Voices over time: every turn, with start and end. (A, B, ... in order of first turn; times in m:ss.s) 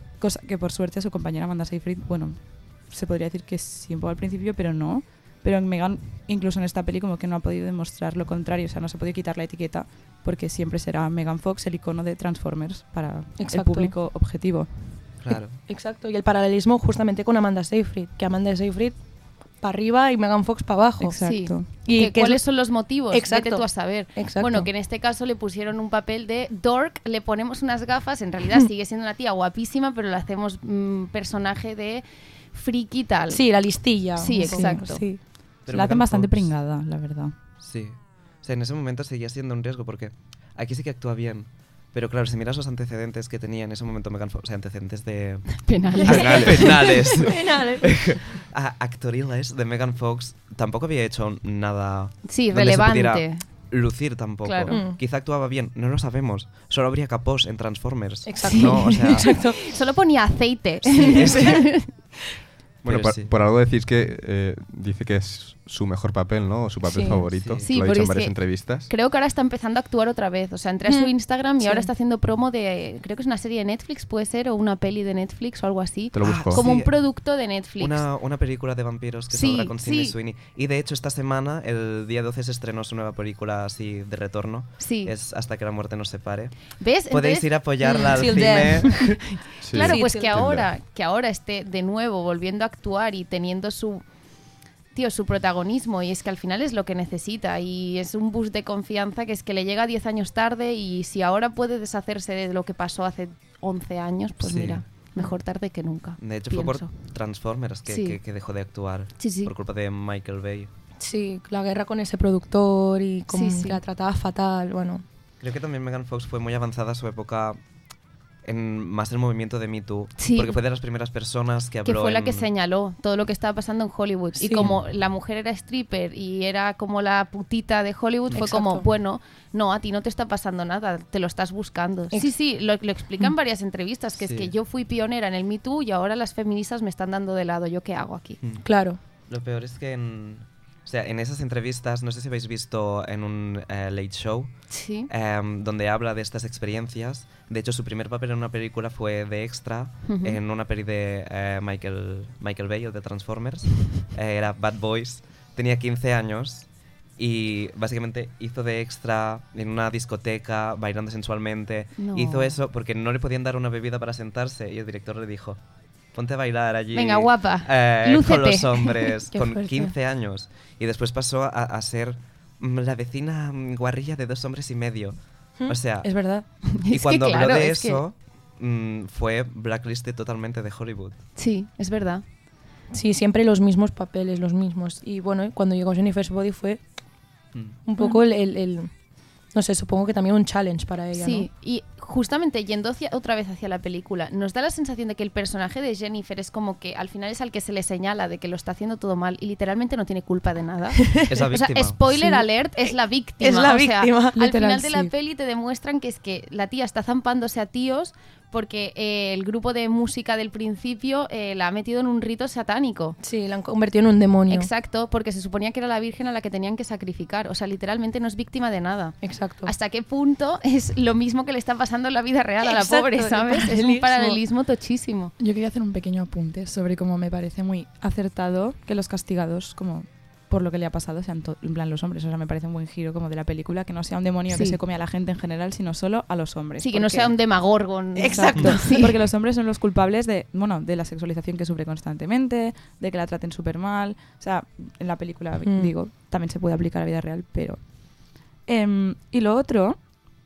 0:00.2-0:14.7 A
0:13.4-0:14.0 B
0:15.2-0:15.6 C
0:15.3-0:19.0 B
0:19.6-0:21.2 B
0:21.0-0:21.7 A
0:21.2-0:33.4 D
0:21.8-0:22.4 B
0:23.1-0:24.7 B
0:33.3-0:35.2 B
0:34.2-0:35.0 D
0:34.5-0:34.8 A
0:35.7-0:36.5 C
0:35.7-0:37.4 A
0:37.6-0:59.3 C
0:45.6-0:47.2 D
0:46.0-0:46.8 E
0:46.2-0:46.7 B
0:47.2-0:48.0 B
0:52.3-0:53.4 D
0:54.4-0:54.8 D
0:54.7-0:55.0 B
0:58.3-0:59.6 B
0:58.4-1:01.9 D
1:01.0-1:01.6 B
1:01.0-1:01.7 C
1:02.8-1:03.3 C
1:02.8-1:08.9 E
1:06.9-1:07.2 B
1:07.3-1:07.7 C
1:07.6-1:18.0 D
1:10.9-1:11.9 B
1:16.1-1:16.6 E
1:16.2-1:17.0 C
1:17.8-1:29.2 C
1:19.3-1:20.1 D
1:24.8-1:25.1 D
1:26.8-1:28.6 D
1:28.1-1:29.2 B
1:29.6-1:30.7 E
1:29.7-1:34.0 D
1:29.8-1:30.4 B
1:34.9-1:46.9 D
1:44.4-1:44.9 C
1:46.2-1:50.7 C
1:47.9-1:48.2 D
1:49.2-1:49.5 D
1:51.0-1:55.0 B
1:53.3-1:53.8 D
1:55.4-1:57.6 C
1:58.4-2:02.5 C
2:00.2-2:00.6 D
2:01.8-2:18.4 D
2:04.4-2:04.7 B
2:08.3-2:08.9 B
2:14.2-2:14.5 C
2:18.6-2:19.0 B
2:19.3-2:45.6 C
2:24.7-2:25.1 D
2:30.1-2:30.4 D
2:42.0-2:42.6 D
2:46.1-2:56.1 C
2:46.9-2:49.9 D
2:55.6-2:56.4 B
2:56.7-2:58.0 D
2:56.9-3:01.2 C
3:01.4-3:02.2 D
3:02.9-3:06.8 B
3:07.8-3:08.9 B
3:09.5-3:11.5 B
3:11.2-3:33.2 D
3:21.1-3:21.3 B
3:21.3-3:22.0 C
3:22.1-3:24.6 B
3:24.5-3:25.1 A
3:33.2-3:34.7 B
3:34.5-3:45.3 D
3:39.2-3:39.7 B
3:42.6-3:44.4 B
3:45.4-3:57.4 A
3:54.5-3:54.8 D
3:56.8-3:59.1 D
3:58.2-3:59.0 B
3:58.2-4:07.9 A
4:05.6-4:05.9 B
4:08.7-4:10.0 A